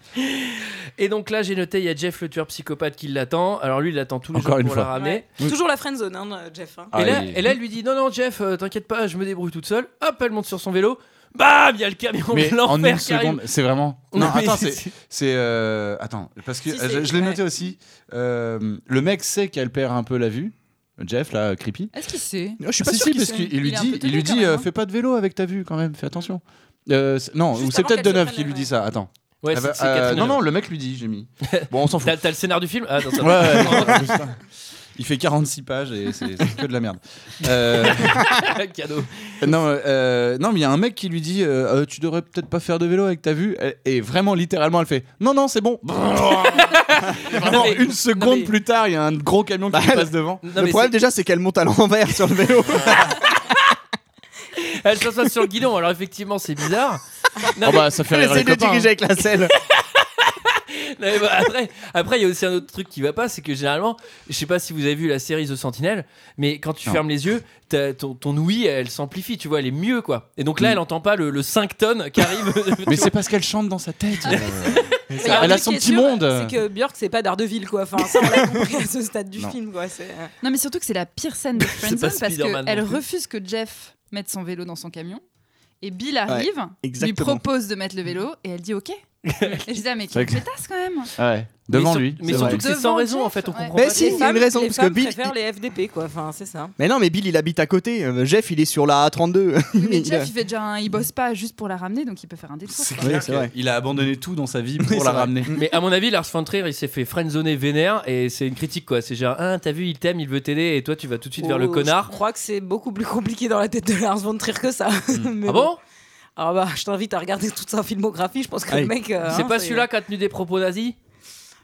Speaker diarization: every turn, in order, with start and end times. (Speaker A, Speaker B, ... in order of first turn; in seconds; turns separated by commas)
Speaker A: 0.2-5.2, Speaker B: 4.3-5.5, Speaker C: 4.9-6.9, Speaker B: 6.9-7.5, Speaker A: 6.9-13.4, Speaker B: 12.3-21.9, Speaker A: 14.1-14.9, Speaker C: 16.7-17.4, Speaker D: 21.9-22.6, Speaker E: 22.6-23.6, Speaker B: 22.8-32.2, Speaker D: 23.3-24.7, Speaker C: 27.5-28.7, Speaker A: 29.4-30.4, Speaker A: 31.5-34.2, Speaker B: 33.2-34.4, Speaker B: 34.9-38.3, Speaker A: 37.7-39.4, Speaker B: 39.4-50.4, Speaker A: 46.5-48.5, Speaker E: 49.7-53.3, Speaker A: 50.4-51.0, Speaker A: 54.5-57.9, Speaker B: 57.6-58.9, Speaker E: 58.0-59.5, Speaker A: 59.7-73.2, Speaker B: 72.8-76.6, Speaker E: 75.1-75.6, Speaker C: 75.2-80.3, Speaker E: 78.2-78.5, Speaker D: 80.4-85.2, Speaker A: 81.6-83.0, Speaker D: 85.8-89.0, Speaker E: 86.3-87.4, Speaker A: 89.2-89.7, Speaker D: 89.6-91.1, Speaker B: 90.1-90.4, Speaker B: 91.2-92.7, Speaker A: 91.7-94.2, Speaker E: 92.2-92.6, Speaker D: 92.5-94.0, Speaker E: 93.7-95.3, Speaker C: 93.8-96.7, Speaker E: 96.8-100.3, Speaker D: 99.8-103.2, Speaker B: 102.7-105.5, Speaker E: 103.0-103.5, Speaker E: 104.8-105.7, Speaker A: 105.5-112.1, Speaker C: 111.4-115.7, Speaker A: 115.4-115.8, Speaker C: 116.4-119.9, Speaker A: 119.3-121.0